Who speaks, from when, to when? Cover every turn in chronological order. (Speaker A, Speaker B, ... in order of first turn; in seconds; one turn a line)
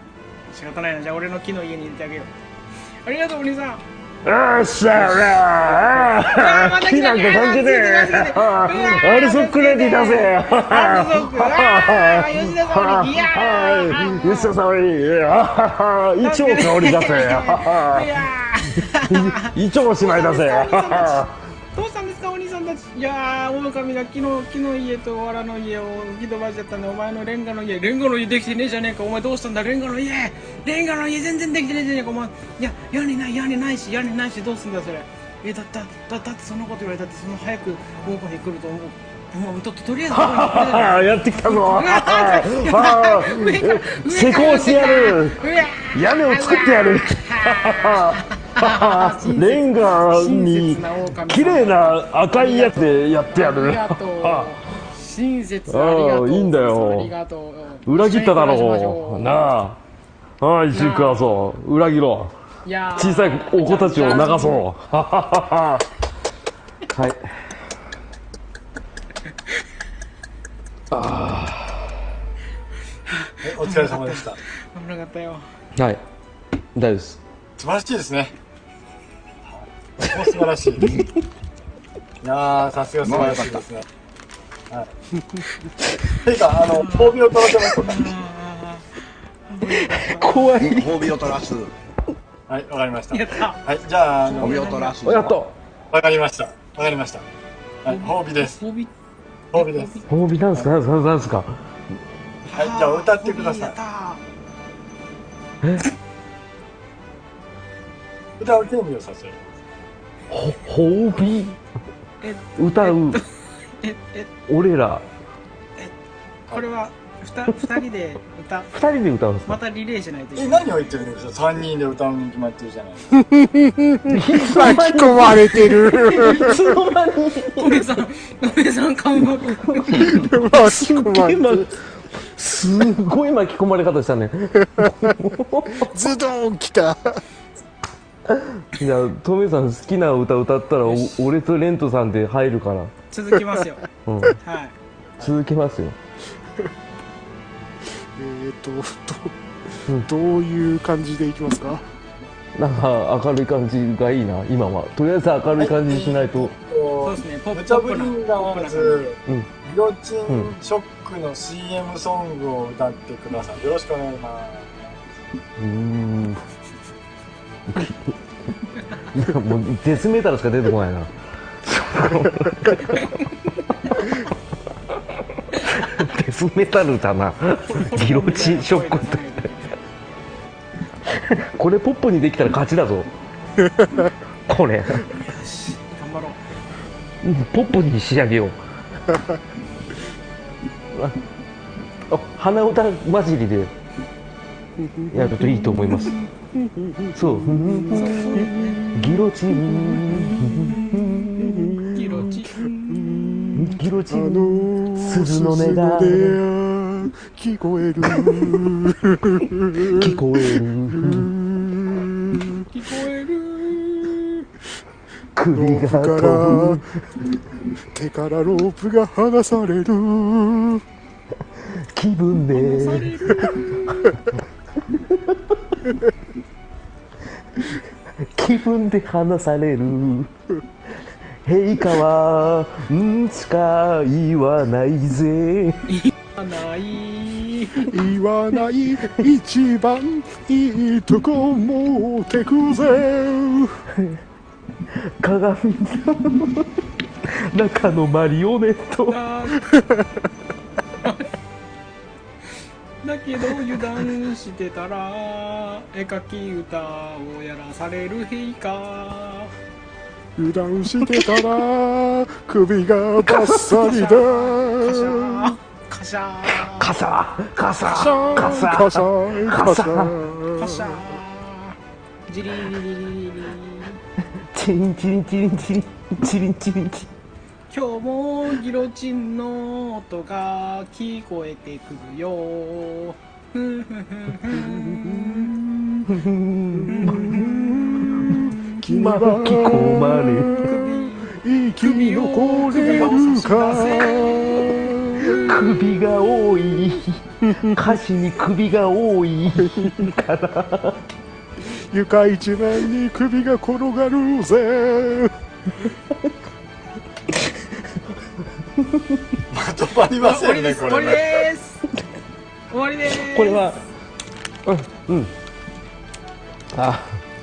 Speaker A: 0.5-2.3
Speaker A: 3.0-3.8
Speaker B: 4.2-18.2
Speaker A: 4.9-14.5
Speaker A: 16.2-21.2
Speaker B: 18.9-21.3
Speaker A: 21.8-59.4
Speaker B: 40.1-54.6
Speaker B: 55.7-57.1
Speaker B: 57.9-59.8
Speaker B: 60.4-62.3
Speaker A: 60.7-61.3
Speaker A: 62.6-64.7
Speaker B: 63.0-65.9
Speaker B: 66.9-67.3
Speaker B: 70.9-71.9
Speaker A: 73.1-75.5
Speaker C: 73.4-74.4
Speaker B: 75.8-76.0
Speaker B: 76.8-77.2
Speaker C: 77.6-78.3
Speaker C: 79.5-81.0
Speaker C: 82.2-83.8
Speaker D: 83.0-83.7
Speaker C: 86.2-88.2
Speaker A: 86.7-90.5
Speaker B: 89.7-91.1
Speaker D: 90.6-91.7
Speaker C: 92.5-94.6
Speaker A: 93.1-93.6
Speaker A: 94.2-95.1
Speaker D: 94.4-95.4
Speaker B: 95.0-95.5
Speaker C: 95.9-97.3
Speaker C: 97.8-98.6
Speaker A: 97.9-98.9
Speaker C: 99.5-100.0
Speaker A: 99.5-100.1
Speaker B: 100.1-101.6
Speaker A: 102.5-104.2
Speaker C: 102.6-103.8
Speaker C: 108.4-109.4
Speaker B: 110.3-111.6
Speaker A: 112.2-114.3
Speaker B: 112.6-113.2
Speaker B: 114.5-115.1
Speaker A: 116.5-118.7
Speaker B: 118.7-119.5
Speaker A: 119.5-120.8
Speaker C: 120.4-123.2
Speaker E: 123.2-126.8
Speaker B: 124.1-127.8
Speaker A: 127.6-130.2
Speaker B: 129.6-135.9
Speaker E: 129.9-131.7
Speaker E: 134.8-135.1
Speaker E: 135.8-137.2
Speaker B: 138.3-142.9
Speaker A: 140.9-141.3
Speaker A: 143.1-143.8
Speaker B: 144.1-144.4
Speaker A: 144.4-144.8
Speaker B: 145.2-146.0
Speaker E: 148.2-149.3
Speaker E: 149.9-151.8
Speaker B: 152.6-156.5
Speaker C: 155.6-164.9
Speaker A: 157.0-159.1
Speaker B: 160.3-160.5
Speaker B: 165.6-166.4
Speaker B: 167.7-168.2
Speaker B: 169.1-171.1
Speaker B: 171.6-173.1
Speaker B: 175.6-179.2
Speaker A: 177.6-179.7
Speaker B: 181.1-183.1
Speaker B: 184.5-185.1
Speaker A: 185.1-186.4
Speaker B: 187.2-188.6
Speaker B: 190.9-191.2
Speaker B: 192.1-193.7
Speaker E: 194.8-202.3
Speaker B: 195.1-196.2
Speaker B: 197.2-202.3
Speaker A: 197.9-198.8
Speaker A: 201.9-203.6
Speaker E: 202.9-212.7
Speaker B: 203.6-206.4
Speaker B: 209.8-211.3
Speaker A: 212.7-214.4
Speaker B: 215.4-216.8
Speaker E: 215.5-216.9
Speaker E: 217.9-220.8
Speaker B: 221.6-224.1
Speaker A: 222.5-223.8
Speaker B: 224.9-225.6
Speaker B: 228.2-230.3
Speaker B: 231.4-235.9
Speaker A: 235.9-237.9
Speaker E: 237.9-243.8
Speaker B: 244.9-246.8
Speaker B: 247.3-249.2
Speaker A: 249.1-249.8
Speaker E: 249.8-250.1
Speaker A: 251.0-251.3
Speaker A: 253.0-259.5
Speaker E: 260.4-265.5
Speaker B: 263.3-263.7
Speaker A: 263.5-266.9
Speaker B: 266.5-270.2
Speaker E: 267.9-271.1
Speaker A: 270.5-274.0
Speaker B: 274.5-277.1
Speaker A: 277.7-285.6
Speaker E: 284.6-285.6
Speaker B: 286.1-290.8
Speaker E: 286.8-295.6
Speaker A: 286.9-288.1
Speaker A: 290.5-295.7
Speaker B: 292.8-293.1
Speaker B: 295.2-301.0
Speaker E: 297.4-297.8
Speaker E: 299.6-300.1
Speaker E: 301.7-305.3
Speaker B: 308.8-309.2
Speaker C: 309.5-311.3
Speaker A: 310.2-311.8
Speaker A: 312.7-313.7
Speaker B: 313.2-313.8
Speaker B: 314.7-315.3
Speaker B: 316.7-317.2